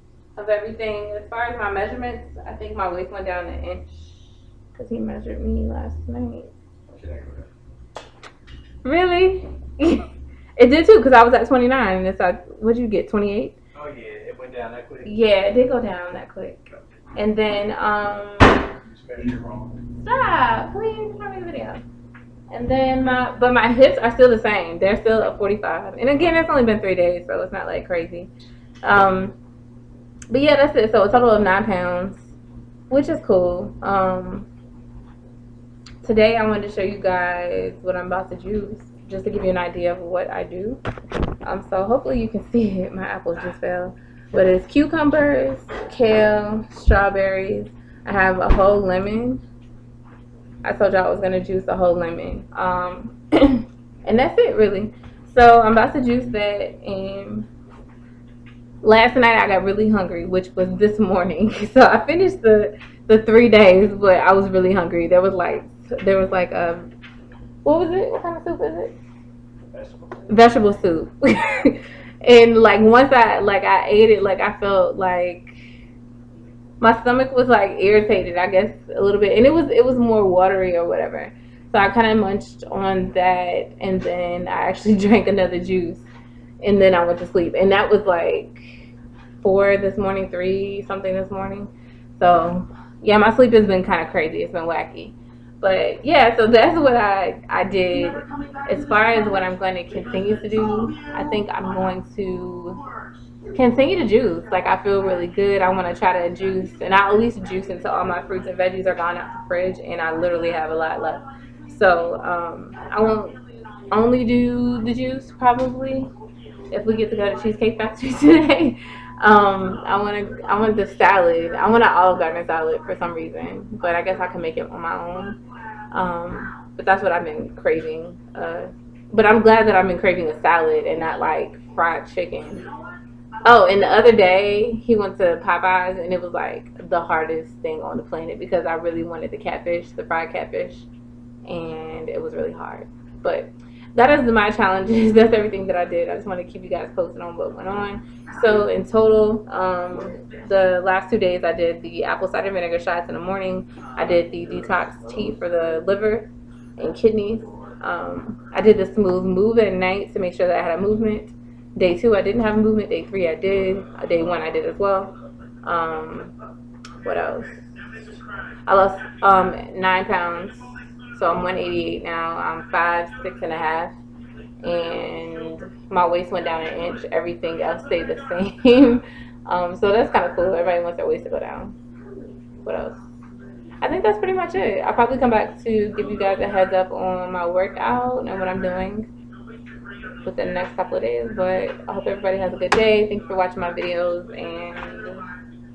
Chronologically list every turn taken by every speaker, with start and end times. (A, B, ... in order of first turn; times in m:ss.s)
0:00.4-0:04.1 A
0:04.7-0:06.5 A
0:06.9-0:07.5 B
0:08.8-0:13.5 A
0:13.7-0:15.1 B
0:15.0-0:18.7 A
0:18.8-0:19.8 B
0:20.0-0:21.8 A
0:22.5-0:28.3 A
0:28.8-0:29.3 A
0:30.3-0:32.3 A
0:32.9-0:34.5 A
0:36.0-0:40.8 A
0:41.4-0:49.4 A
0:50.6-0:57.5 A
0:58.8-1:06.9 A
1:07.6-1:09.0 A
1:09.7-1:10.4 B
1:10.3-1:15.5 A
1:16.8-1:26.1 A
1:26.6-1:28.8 A
1:29.4-1:42.8 A
1:43.5-1:53.4 A
1:53.9-1:56.1 A
1:56.7-2:05.4 A
2:05.9-2:12.7 A
2:13.4-2:20.9 A
2:21.5-2:45.1 A
2:45.6-2:46.3 A
2:47.0-2:47.7 A
2:48.7-2:54.0 A
2:54.6-3:01.8 A
3:02.6-3:03.0 A
3:03.8-3:09.1 A
3:10.2-3:15.2 A